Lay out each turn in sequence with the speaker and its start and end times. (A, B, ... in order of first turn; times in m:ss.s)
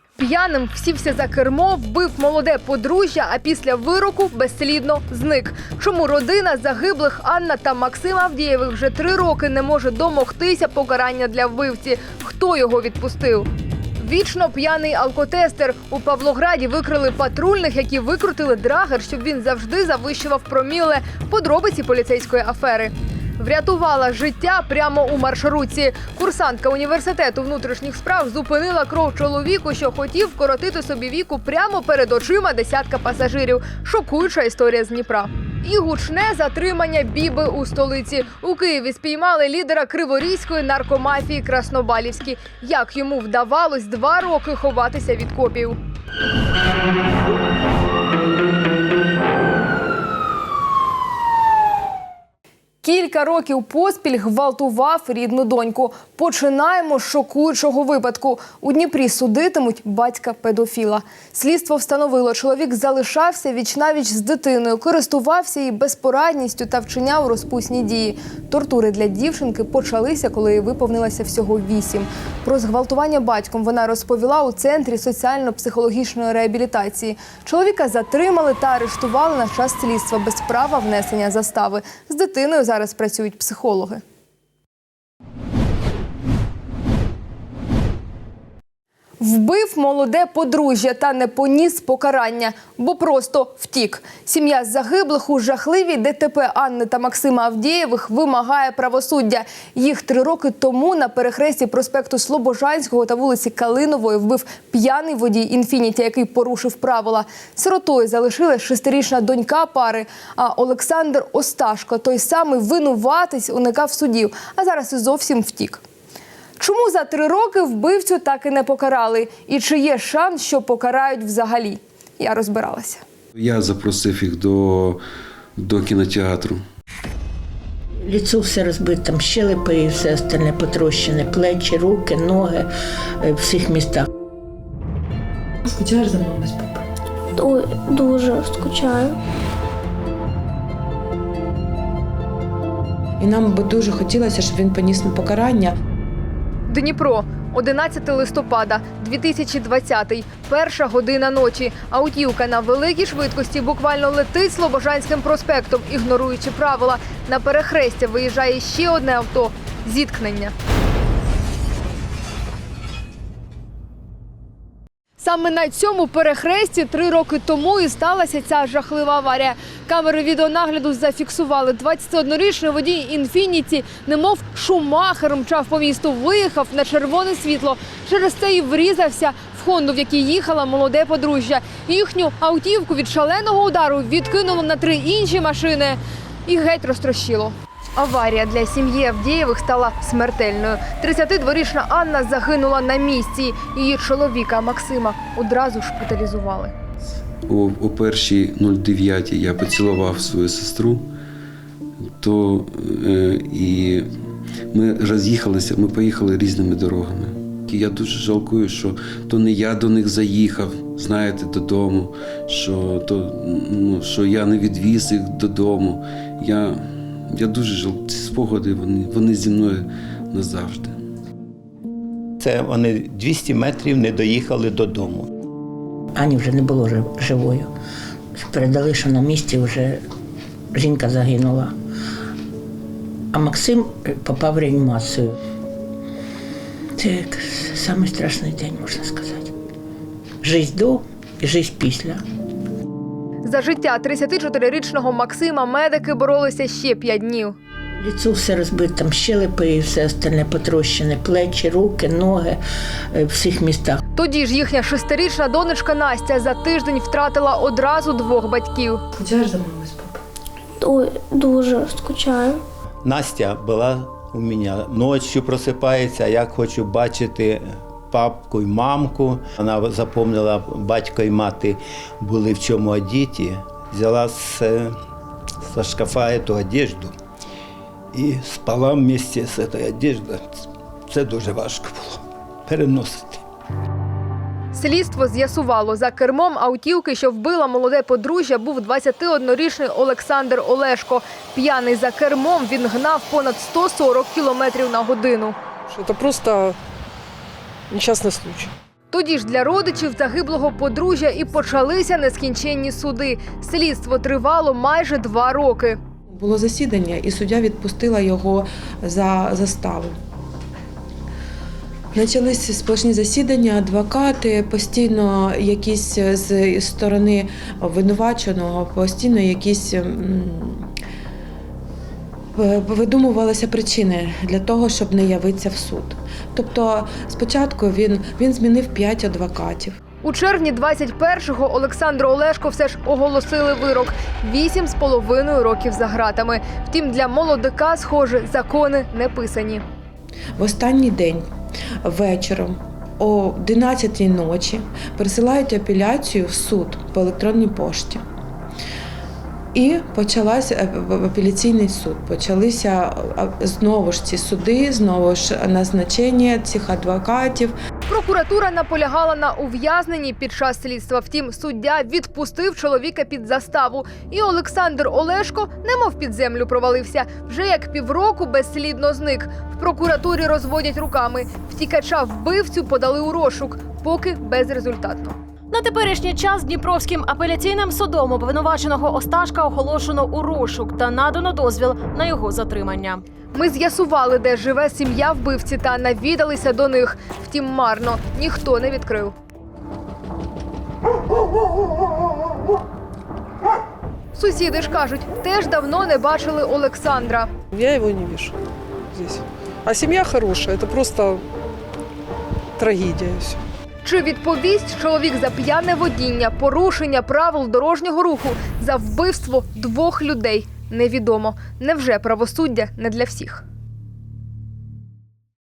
0:00.2-0:45.8 A
0:52.8-1:24.0 A
1:29.2-1:55.8 A
1:56.6-2:03.0 A
2:03.4-2:05.0 B
2:05.6-2:06.6 B
2:08.0-2:14.1 C
2:15.7-2:16.8 D
2:17.4-2:19.2 E
2:23.2-2:25.8 D
2:26.7-2:40.5 A
2:45.2-3:16.7 A
3:17.5-3:21.1 B
3:22.2-3:24.1 B
3:24.7-3:36.8 B
3:37.3-3:41.0 B
3:42.4-3:45.3 F
3:46.1-3:47.7 C
3:48.3-3:50.0 C
3:50.7-3:51.8 C
3:53.3-3:55.4 C
3:57.0-3:59.5 C
4:00.4-4:02.2 C
4:03.4-4:07.6 A
4:08.0-4:14.0 C
4:14.2-4:19.0 A
4:19.2-4:20.2 D
4:20.8-4:22.6 E
4:23.0-4:35.0 F
4:35.6-4:37.1 F
4:38.1-4:43.4 F
4:44.7-4:55.6 A
4:56.0-4:56.8 G
4:57.9-4:58.7 G
4:59.1-5:06.0 A
5:06.3-5:10.2 D
5:12.1-5:20.9 D
5:22.6-5:30.0 D
5:30.2-5:39.8 A
5:40.6-5:41.5 D
5:42.0-5:48.2 D
5:49.7-5:57.8 D
5:58.1-6:15.4 A
6:15.7-6:23.2 H
6:23.5-6:29.3 A
6:34.4-6:37.5 A
6:37.7-6:38.5 G
6:39.2-6:41.4 G
6:42.8-6:43.6 G
6:44.0-6:53.6 A